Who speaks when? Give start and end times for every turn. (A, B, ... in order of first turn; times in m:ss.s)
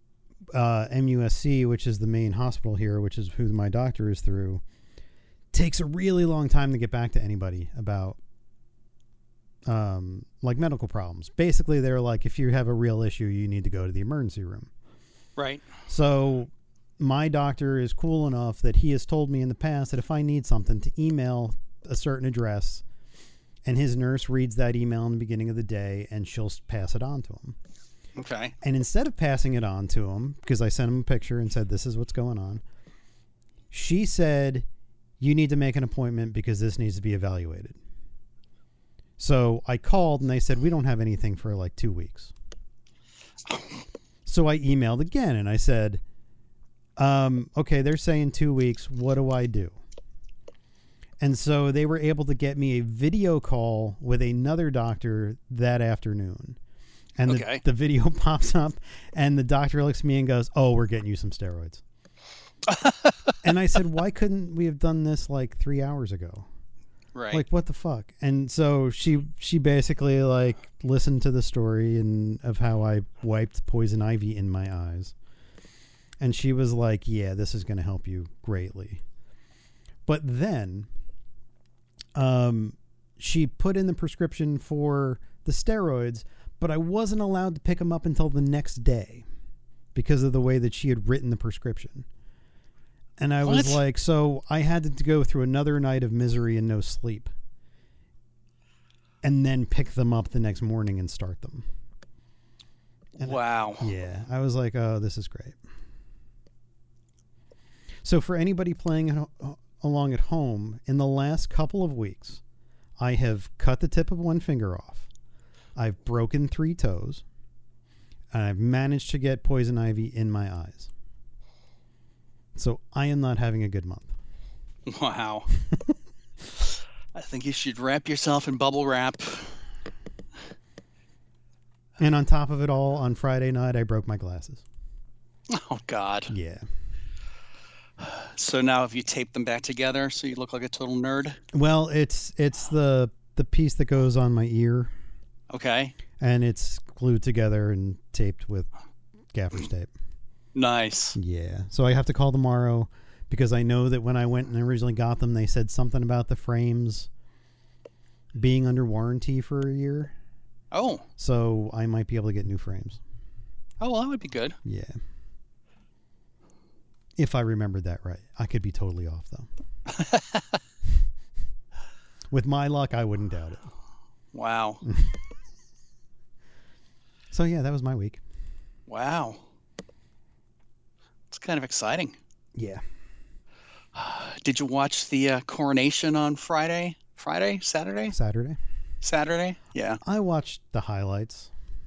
0:00.5-0:04.6 A
0:05.5-0:08.2 A
0:09.6-0:14.7 A
0:15.4-0:15.6 B
0:15.9-0:22.8 A
0:23.6-0:27.5 A
0:28.2-0:28.5 B
0:28.6-0:32.6 A
0:33.7-0:34.6 A
0:35.2-0:37.8 A
0:39.2-0:42.3 A
0:43.5-0:43.8 B
0:44.2-0:46.0 A
0:47.0-0:49.8 A
0:51.2-0:56.6 A
0:57.2-1:01.8 A
0:57.2-0:57.6 B
1:02.7-1:03.4 B
1:03.4-1:06.5 A
1:07.1-1:07.4 B
1:07.3-1:15.1 A
1:16.2-1:19.0 A
1:20.0-1:20.9 A
1:22.1-1:29.2 A
1:29.9-1:32.1 A
1:33.2-1:37.3 A
1:33.4-1:33.8 B
1:39.2-1:41.6 A
1:43.2-1:45.6 A
1:43.2-1:43.9 B
1:48.0-1:52.4 A
1:53.0-1:55.1 A
1:55.8-1:57.2 A
1:58.3-2:00.9 A
2:02.5-2:04.1 A
2:04.9-2:05.5 B
2:07.1-2:09.6 B
2:12.0-2:14.6 A
2:15.5-2:16.3 B
2:16.3-2:16.7 A
2:18.0-2:21.4 B
2:21.5-2:24.9 A
2:25.5-2:25.9 B
2:26.2-2:28.7 A
2:29.3-2:29.9 A
2:30.5-2:31.2 B
2:31.2-2:37.1 A
2:38.3-2:40.1 A
2:40.7-2:41.0 B
2:41.2-2:43.0 A
2:43.8-2:44.6 B
2:44.6-2:45.0 A
2:47.2-2:49.5 A
2:49.9-2:50.6 B
2:52.3-2:53.7 A
2:54.3-2:54.8 B
2:54.8-2:55.2 A
2:57.3-2:58.2 A
2:58.9-2:59.4 B
3:01.3-3:02.2 B
3:02.5-3:02.8 A
3:03.9-3:08.1 B
3:08.1-3:08.6 A
3:09.0-3:10.0 B
3:10.0-3:11.5 A